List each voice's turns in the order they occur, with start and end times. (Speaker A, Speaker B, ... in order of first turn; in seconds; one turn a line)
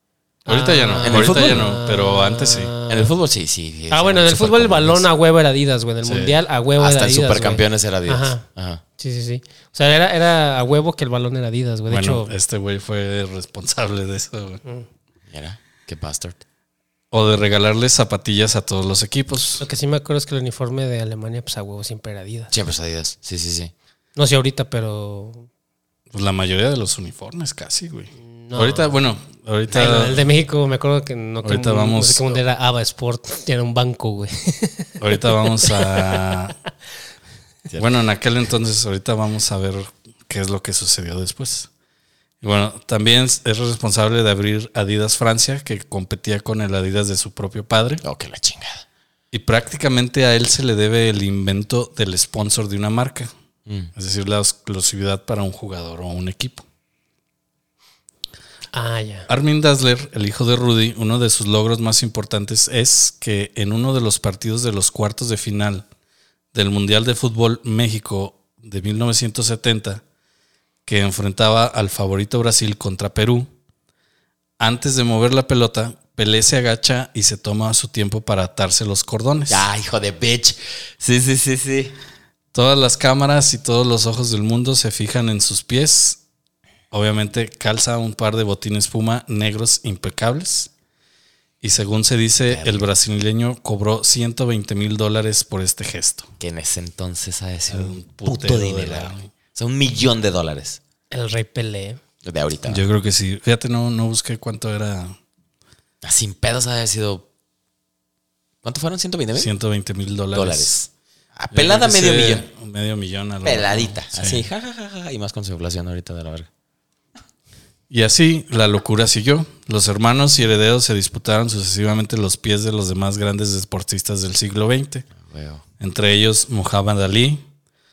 Speaker A: 0.5-3.1
Speaker B: 0.5-2.7
Speaker C: 1.0-1.7
Speaker C: 2.9-5.0
Speaker A: 3.9-8.4
Speaker B: 6.0-6.3
Speaker C: 6.8-8.8
Speaker A: 9.0-12.3
Speaker B: 11.9-14.6
Speaker C: 15.3-16.4
Speaker B: 17.1-19.6
Speaker A: 19.6-22.5
Speaker C: 22.5-23.7
Speaker A: 24.1-25.5
Speaker B: 26.1-30.3
Speaker A: 28.2-29.0
Speaker A: 29.7-36.4
Speaker B: 31.4-32.4
Speaker B: 35.0-36.5
Speaker B: 37.8-41.7
Speaker B: 42.4-48.0
Speaker C: 48.0-48.8
Speaker B: 49.3-53.3
Speaker B: 54.0-56.6
Speaker A: 58.7-59.3
Speaker B: 59.3-65.8
Speaker B: 66.5-70.0
Speaker B: 70.8-73.5
Speaker B: 74.6-79.7
Speaker C: 79.5-81.9
Speaker B: 82.5-86.2
Speaker B: 86.9-90.7
Speaker B: 91.6-96.3
Speaker C: 92.5-92.8
Speaker C: 96.4-100.8
Speaker B: 97.7-99.3
Speaker A: 101.1-102.0
Speaker C: 102.2-102.8
Speaker B: 102.7-105.2
Speaker C: 106.0-107.2
Speaker C: 108.6-109.5
Speaker B: 109.3-110.8
Speaker C: 110.3-112.5
Speaker B: 111.5-114.5
Speaker C: 113.4-116.5
Speaker B: 117.9-125.1
Speaker C: 125.2-125.6
Speaker B: 125.8-127.4